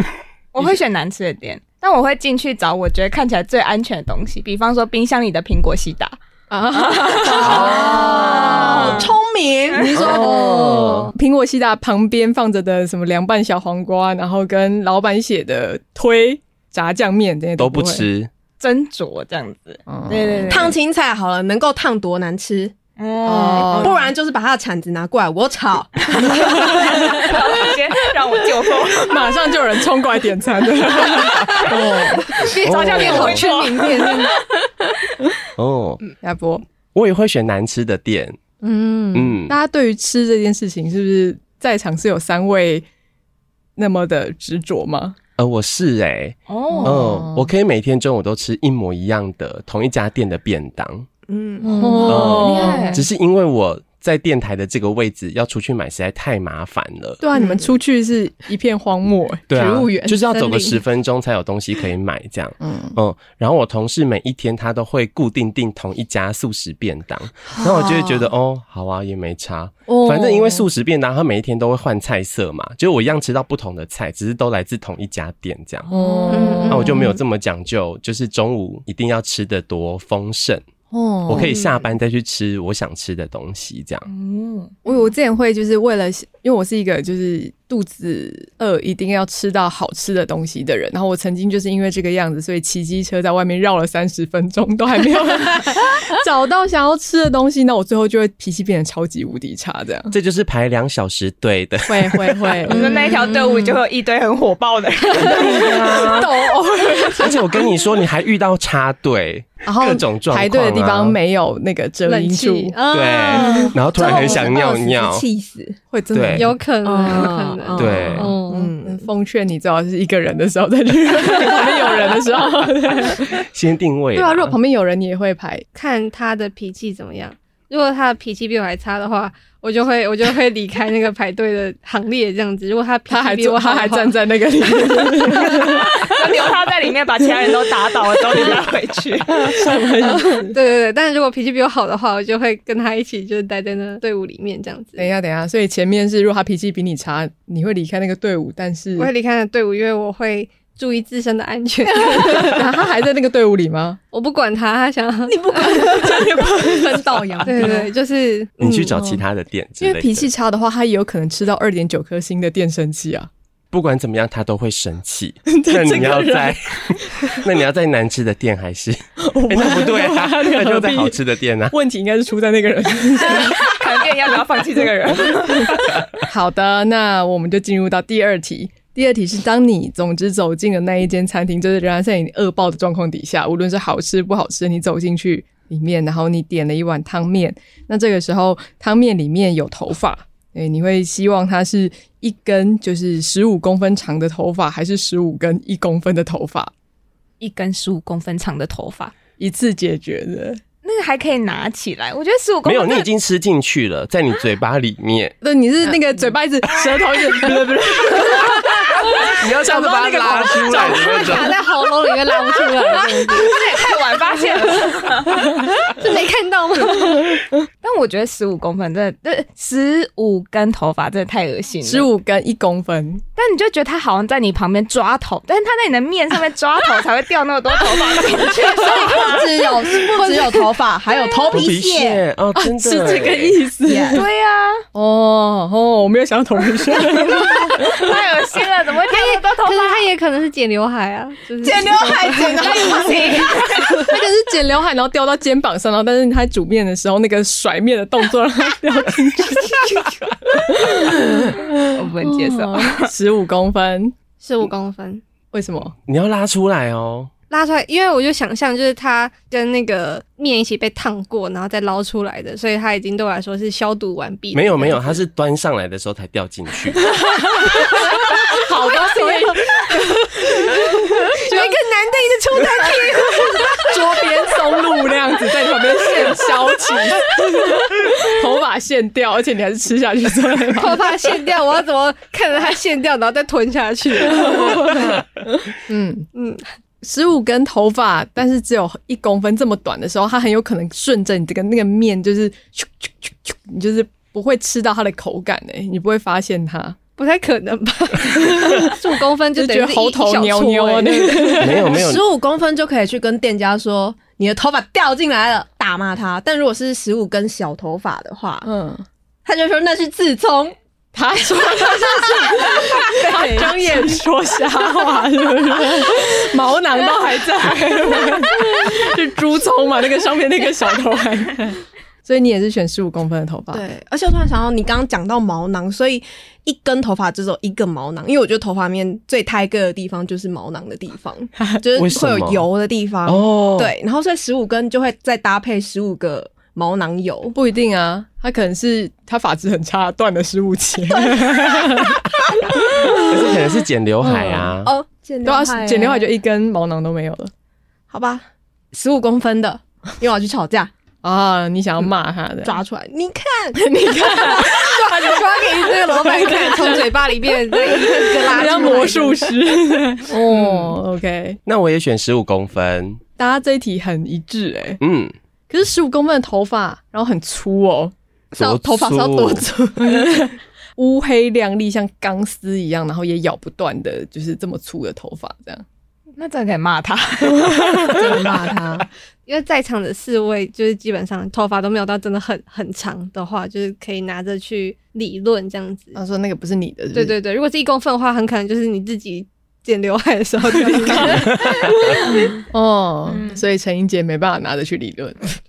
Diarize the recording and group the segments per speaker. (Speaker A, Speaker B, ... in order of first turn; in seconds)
Speaker A: 0.5-6.2, 6.7-9.1, 18.6-20.8, 23.0-24.0, 26.2-29.3, 31.0-34.3, 46.5-47.0, 75.9-76.6, 84.1-84.7, 102.7-105.7, 135.6-139.6, 173.2-176.0, 197.4-199.1, 200.8-203.1, 213.3-215.7, 217.8-222.1, 223.4-230.1, 234.1-234.8, 237.5-240.0, 242.6-244.0, 251.8-253.1, 376.4-378.5
Speaker B: 6.5-9.0, 10.1-18.1, 19.9-20.8, 23.2-24.1, 26.2-27.4, 28.9-34.3, 36.2-36.6, 39.5-42.9, 43.8-45.2, 46.7-47.5, 51.6-53.0, 57.2-59.5, 62.6-63.0, 69.9-70.7, 75.9-77.0, 80.9-81.5, 84.8-100.2, 101.9-103.5, 105.5-107.6, 109.6-112.8, 115.9-116.6, 118.8-123.4, 124.1-125.7, 133.1-135.9, 139.4-140.6, 145.0-149.1, 152.2-154.0, 155.6-157.8, 158.9-159.2, 159.8-163.3, 165.5-167.4, 169.2-171.2, 171.7-173.7, 175.4-196.7, 199.4-200.6, 205.4-211.7, 212.6-212.9, 221.8-223.2, 232.6-234.3, 234.9-238.2, 243.9-254.2, 255.5-255.9, 267.1-271.6, 273.1-281.2, 284.4-285.1, 285.8-286.3, 287.0-297.0, 298.3-299.0, 299.6-302.0, 308.6-309.1, 311.1-323.8, 337.5-343.5, 344.2-344.7, 345.4-347.5, 351.2-352.8, 353.8-355.2, 356.1-357.1, 358.4-361.6, 363.4-365.0, 365.7-368.1, 370.0-375.8, 386.1-387.4, 390.8-395.6
Speaker C: 7.2-10.6, 20.5-26.6, 51.3-53.0, 57.4-57.7, 59.5-60.2, 114.0-115.8, 116.8-119.1, 155.3-157.9, 228.7-232.2, 233.9-234.2, 241.6-244.0, 271.5-273.9, 301.9-308.7, 309.4-310.8, 313.2-314.1, 323.7-337.6, 341.2-342.0, 344.8-346.3, 348.1-350.9, 352.6-359.3, 368.5-370.4, 378.1-379.1
Speaker D: 7.4-8.1, 9.9-11.1, 17.6-18.3, 32.6-33.4, 35.6-36.0, 36.9-38.4, 39.1-39.5, 45.4-51.1, 52.1-57.2, 59.5-75.9, 76.7-80.7, 81.3-84.1, 100.1-102.7, 105.1-106.3, 107.2-111.2, 112.9-115.2, 116.1-116.5, 117.8-118.3, 123.5-124.6, 158.6-160.3, 163.7-171.8, 202.7-205.3, 209.2-211.6, 231.5-233.6, 256.1-257.3, 264.5-267.1, 301.6-302.2, 332.0-332.7, 333.3-333.9, 343.1-344.9, 361.7-363.2, 365.0-365.4, 368.5-369.7
Speaker E: 10.3-11.1, 32.3-34.3, 38.6-39.4, 60.3-60.8, 76.3-77.2, 112.1-114.5, 116.4-118.7, 125.7-134.2, 140.3-145.1, 149.0-152.7, 154.1-156.3, 157.4-158.9, 210.3-213.6, 215.8-217.4, 230.2-230.6, 239.1-243.5, 254.4-255.2, 257.5-265.2, 269.1-269.6, 271.5-273.9, 280.8-285.3, 286.4-286.6, 297.2-301.8, 313.2-313.7, 355.1-359.5, 379.5-386.2, 387.1-392.6